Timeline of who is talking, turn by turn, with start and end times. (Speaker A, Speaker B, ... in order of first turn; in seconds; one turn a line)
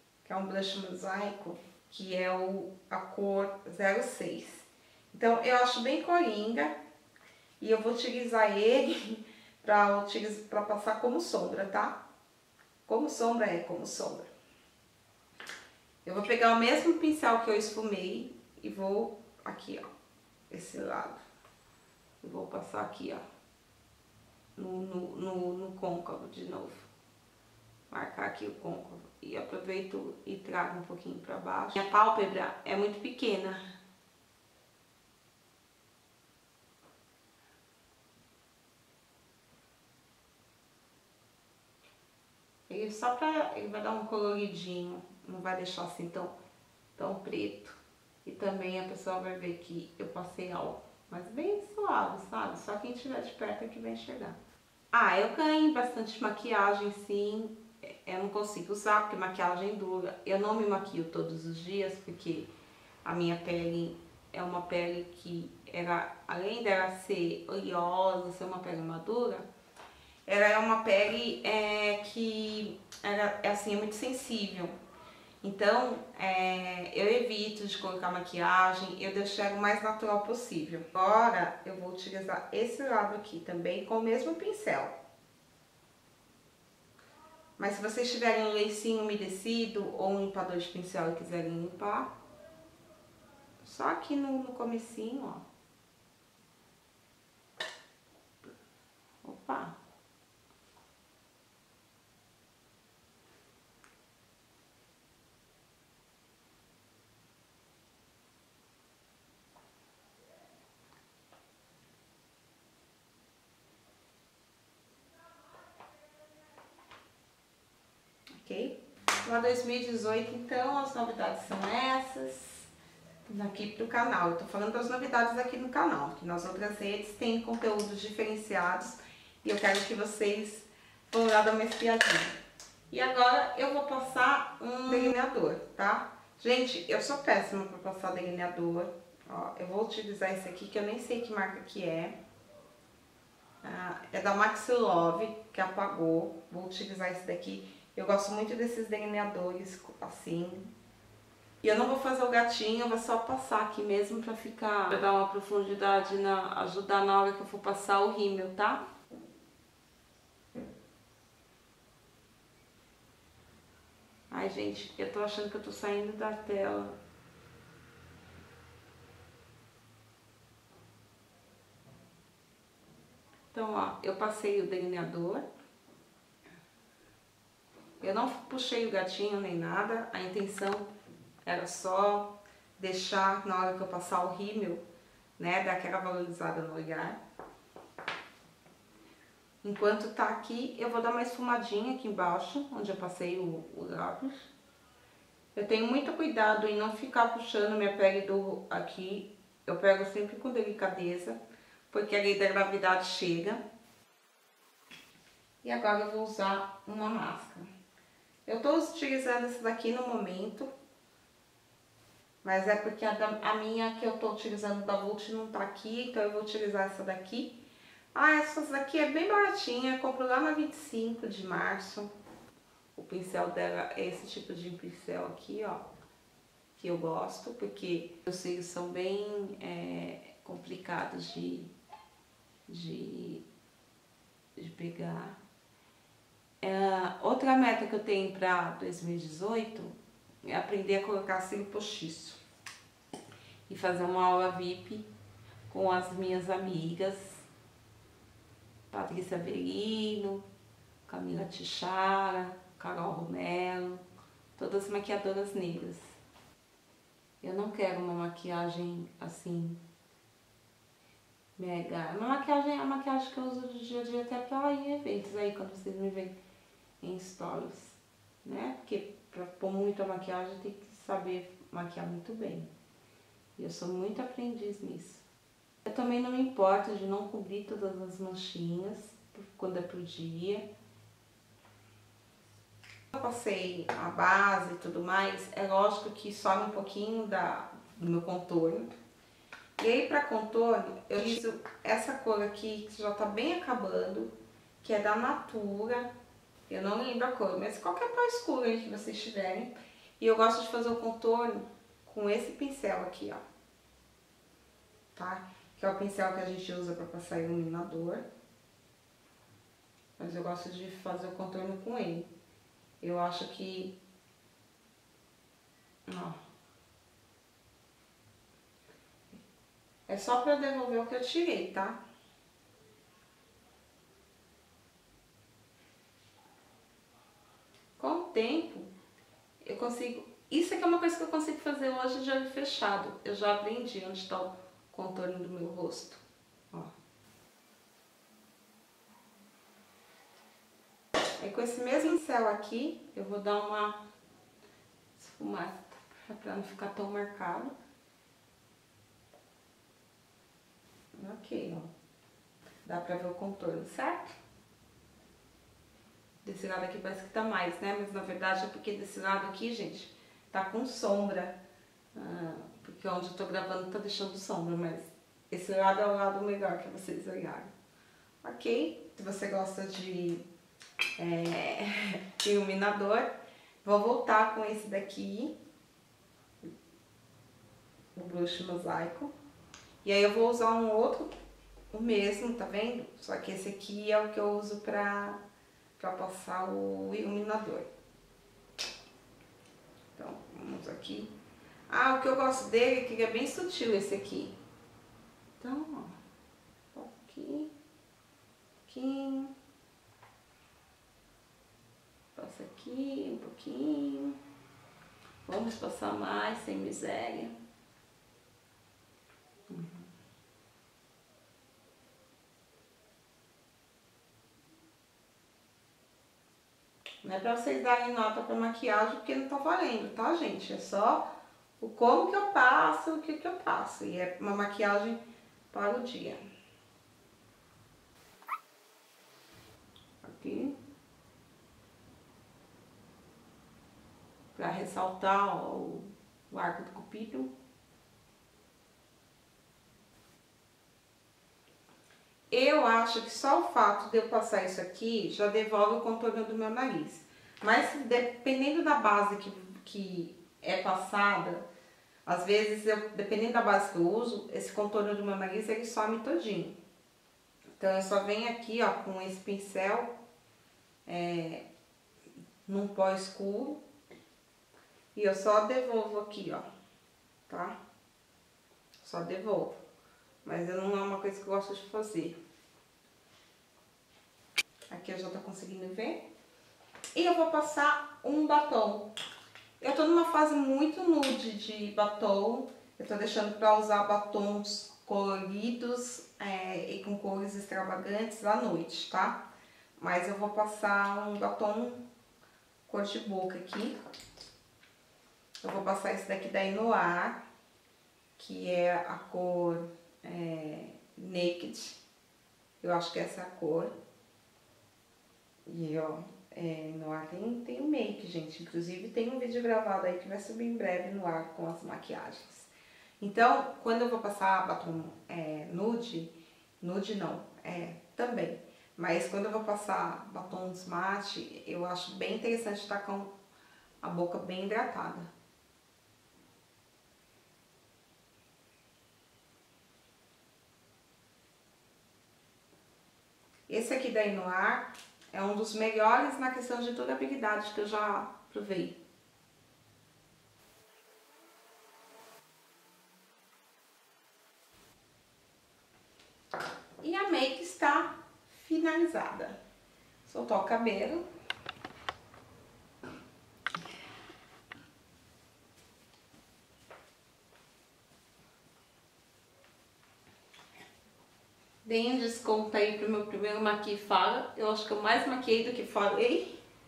Speaker A: 0.2-6.7
Speaker A: 7.6-12.0
Speaker A: 12.8-14.3
Speaker A: 16.0-19.8
Speaker A: 20.5-21.2
Speaker A: 22.2-23.2
Speaker A: 24.6-26.9
Speaker A: 27.9-33.6
Speaker A: 42.7-46.3
Speaker A: 47.0-54.4
Speaker A: 54.9-62.5
Speaker A: 63.0-69.5
Speaker A: 70.3-74.7
Speaker A: 75.4-85.0
Speaker A: 87.6-92.1
Speaker A: 93.6-95.4
Speaker A: 99.2-99.8
Speaker A: 118.4-122.7
Speaker A: 123.3-132.4
Speaker A: 132.9-142.1
Speaker A: 143.6-150.7
Speaker A: 151.6-158.8
Speaker A: 164.3-167.0
Speaker A: 173.5-175.4
Speaker A: 178.0-180.9
Speaker A: 181.4-184.8
Speaker A: 185.4-187.2
Speaker A: 189.6-194.5
Speaker A: 195.5-201.4
Speaker A: 201.9-203.6
Speaker A: 205.6-207.7
Speaker A: 208.4-210.7
Speaker A: 212.4-217.6
Speaker A: 218.1-222.1
Speaker A: 222.9-225.8
Speaker A: 226.8-231.7
Speaker A: 232.7-233.4
Speaker A: 234.6-235.4
Speaker A: 236.6-242.4
Speaker A: 243.7-245.1
Speaker A: 245.7-247.5
Speaker A: 248.9-250.4
Speaker A: 251.1-254.0
Speaker A: 254.6-256.1
Speaker A: 257.4-259.8
Speaker A: 261.6-266.3
Speaker A: 267.0-272.7
Speaker A: 273.6-275.2
Speaker A: 275.9-280.6
Speaker A: 283.1-288.9
Speaker A: 289.8-296.1
Speaker A: 296.7-303.4
Speaker A: 305.1-308.2
Speaker A: 310.2-312.3
Speaker A: 313.0-314.0
Speaker A: 316.1-316.4
Speaker A: 320.1-322.0
Speaker A: 328.0-328.9
Speaker A: 329.6-336.9
Speaker A: 341.4-344.0
Speaker A: 345.2-347.7
Speaker A: 351.1-351.9
Speaker A: 352.8-354.3
Speaker A: 356.4-361.6
Speaker A: 362.1-367.7
Speaker A: 368.4-370.4
Speaker A: 371.2-373.3
Speaker A: 373.8-375.5
Speaker A: 378.1-379.3
Speaker A: 380.0-381.3
Speaker A: 381.9-385.4
Speaker A: 386.0-387.9
Speaker A: 390.1-391.3
Speaker A: 391.9-394.6
Speaker A: 395.6-396.2
Speaker A: 396.9-397.7
Speaker A: 398.9-399.5
Speaker A: 402.3-404.4
Speaker A: 405.4-407.5
Speaker A: 409.7-410.1
Speaker A: 417.2-421.3
Speaker A: 421.8-425.2
Speaker A: 425.7-426.4
Speaker A: 430.2-430.8
Speaker A: 434.5-437.5
Speaker A: 442.5-451.6
Speaker A: 452.2-456.8
Speaker A: 457.8-460.1
Speaker A: 461.1-461.6
Speaker A: 462.6-463.8
Speaker A: 465.1-466.6
Speaker A: 467.5-467.8
Speaker A: 469.0-469.8
Speaker A: 470.4-472.4
Speaker A: 474.9-476.2
Speaker A: 477.1-479.1
Speaker A: 479.8-489.4
Speaker A: 490.0-492.0
Speaker A: 492.9-493.9
Speaker A: 495.6-497.4
Speaker A: 498.4-502.0
Speaker A: 502.8-503.9
Speaker A: 505.6-523.3
Speaker A: 524.0-525.3
Speaker A: 533.7-539.0
Speaker A: 547.0-549.5
Speaker A: 550.2-551.2
Speaker A: 561.8-566.6